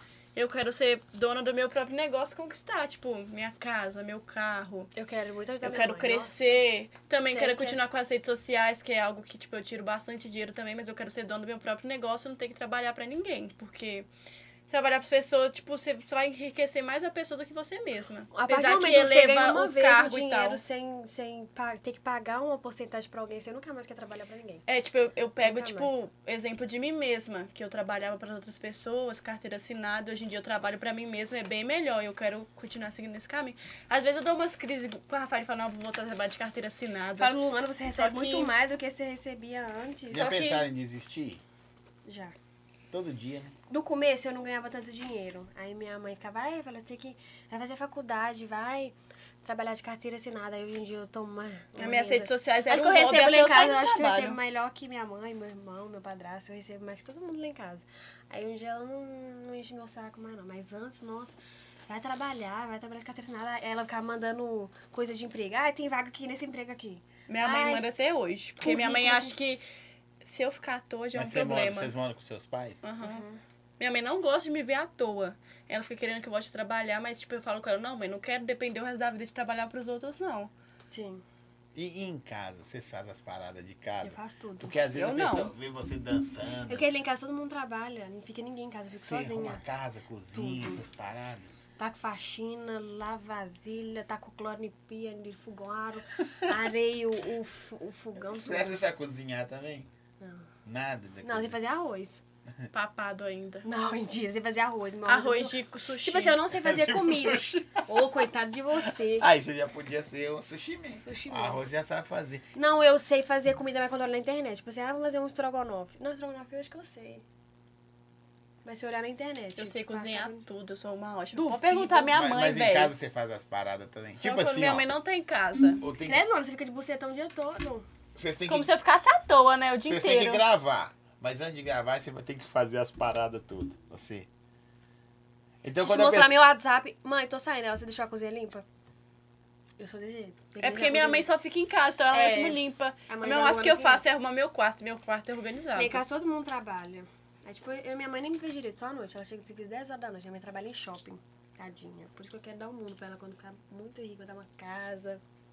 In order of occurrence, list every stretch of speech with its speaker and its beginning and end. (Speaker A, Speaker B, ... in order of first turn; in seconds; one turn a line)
Speaker A: 0.3-4.9
Speaker B: 4.9-6.6
Speaker A: 5.6-14.1
Speaker B: 7.3-7.8
Speaker A: 14.7-20.6
Speaker B: 18.3-24.6
Speaker A: 24.7-37.3
Speaker B: 25.4-25.9
Speaker B: 37.2-40.3
Speaker A: 37.9-38.5
Speaker C: 40.1-41.4
Speaker A: 40.1-40.6
Speaker B: 42.0-42.3
Speaker C: 42.9-43.5
Speaker B: 43.7-67.9
Speaker A: 51.8-54.4
Speaker A: 67.3-69.6
Speaker B: 68.6-69.4
Speaker A: 70.2-71.9
Speaker C: 71.1-72.8
Speaker A: 72.8-73.2
Speaker B: 73.0-73.4
Speaker A: 73.8-80.5
Speaker B: 80.9-81.2
Speaker C: 81.7-86.9
Speaker B: 84.0-84.8
Speaker A: 84.9-85.5
Speaker B: 86.7-89.6
Speaker C: 89.0-91.5
Speaker B: 90.3-90.8
Speaker B: 91.8-98.8
Speaker C: 98.3-99.9
Speaker B: 100.2-100.5
Speaker C: 100.6-101.5
Speaker B: 101.2-102.2
Speaker A: 102.7-103.7
Speaker B: 103.6-109.3
Speaker A: 105.1-106.4
Speaker C: 106.5-112.5
Speaker B: 111.0-111.6
Speaker B: 112.5-117.2
Speaker B: 118.6-120.4
Speaker A: 119.5-122.9
Speaker B: 121.3-122.1
Speaker C: 122.0-124.8
Speaker A: 124.2-125.8
Speaker C: 125.8-126.3
Speaker B: 125.9-127.8
Speaker C: 128.1-128.7
Speaker A: 128.5-130.4
Speaker C: 129.8-134.3
Speaker C: 135.6-136.4
Speaker B: 135.8-138.6
Speaker B: 139.8-141.3
Speaker A: 140.6-146.0
Speaker B: 142.1-144.0
Speaker B: 145.7-155.2